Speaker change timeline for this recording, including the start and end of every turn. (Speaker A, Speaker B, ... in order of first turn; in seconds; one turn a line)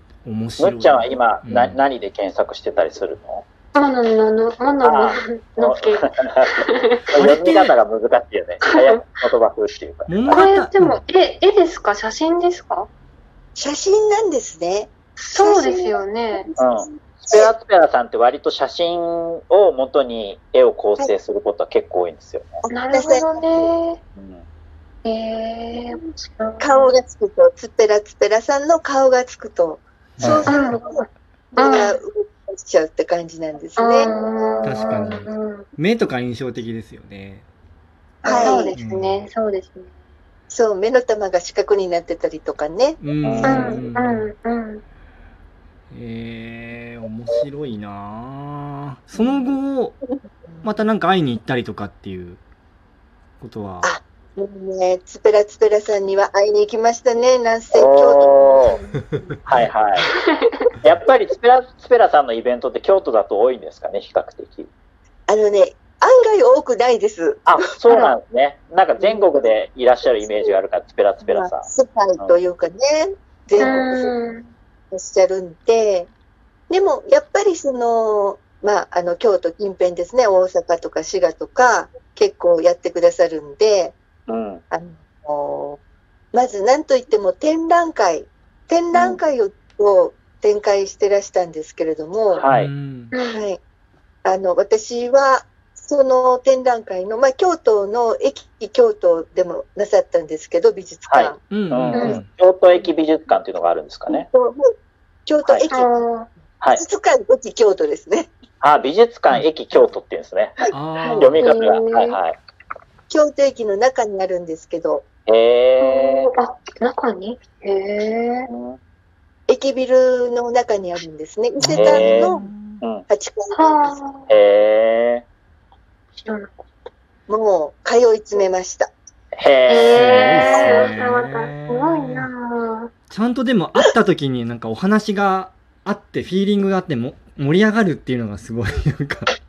Speaker A: 0.2-1.8
Speaker B: 0.6-3.5
Speaker C: 3.8-7.0
Speaker B: 4.8-6.5
Speaker B: 7.1-10.5
Speaker A: 7.2-7.7
Speaker C: 8.7-9.0
Speaker A: 10.1-11.0
Speaker C: 10.3-12.9
Speaker D: 13.6-17.5
Speaker C: 15.2-16.5
Speaker B: 16.6-22.6
Speaker D: 22.7-23.7
Speaker C: 22.7-24.0
Speaker B: 24.2-24.4
Speaker C: 25.1-26.9
Speaker D: 26.6-34.1
Speaker A: 30.2-30.8
Speaker C: 30.5-31.1
Speaker C: 31.6-32.0
Speaker C: 33.8-35.7
Speaker A: 34.6-37.5
Speaker D: 38.2-38.8
Speaker C: 38.2-39.9
Speaker A: 38.7-39.3
Speaker D: 40.5-43.8
Speaker A: 43.0-44.3
Speaker B: 43.2-43.8
Speaker C: 43.4-44.8
Speaker A: 45.9-50.0
Speaker D: 49.1-49.5
Speaker D: 50.5-50.8
Speaker A: 50.6-52.4
Speaker A: 53.4-53.9
Speaker D: 53.8-58.9
Speaker B: 57.7-58.8
Speaker B: 59.5-60.1
Speaker B: 60.8-64.7
Speaker D: 65.3-68.1
Speaker B: 67.5-72.4
Speaker D: 69.0-69.3
Speaker D: 71.2-74.1
Speaker C: 73.6-74.5
Speaker D: 74.9-76.1
Speaker D: 76.7-84.0
Speaker B: 84.3-84.6
Speaker D: 84.7-85.8
Speaker D: 86.3-92.5
Speaker B: 92.3-92.7
Speaker A: 92.5-93.1
Speaker C: 93.1-93.5
Speaker D: 93.3-93.6
Speaker D: 94.2-101.4
Speaker B: 101.1-104.3
Speaker A: 101.5-102.3
Speaker C: 101.9-102.2
Speaker D: 104.1-104.6
Speaker D: 105.3-106.0
Speaker C: 105.7-106.3
Speaker D: 106.7-108.3
Speaker B: 108.6-110.7
Speaker D: 110.6-111.2
Speaker A: 110.7-111.5
Speaker B: 111.2-112.4
Speaker C: 111.4-112.2
Speaker D: 113.1-115.0
Speaker B: 115.3-116.3
Speaker C: 115.8-118.5
Speaker B: 118.5-118.8
Speaker D: 119.5-122.5
Speaker A: 121.6-122.8
Speaker B: 121.8-123.1
Speaker D: 123.1-124.0
Speaker C: 123.5-124.3
Speaker B: 124.3-125.2
Speaker C: 126.2-126.5
Speaker D: 127.3-128.9
Speaker B: 129.3-130.3
Speaker C: 129.7-132.9
Speaker A: 129.9-132.3
Speaker D: 130.5-130.9
Speaker A: 133.1-139.3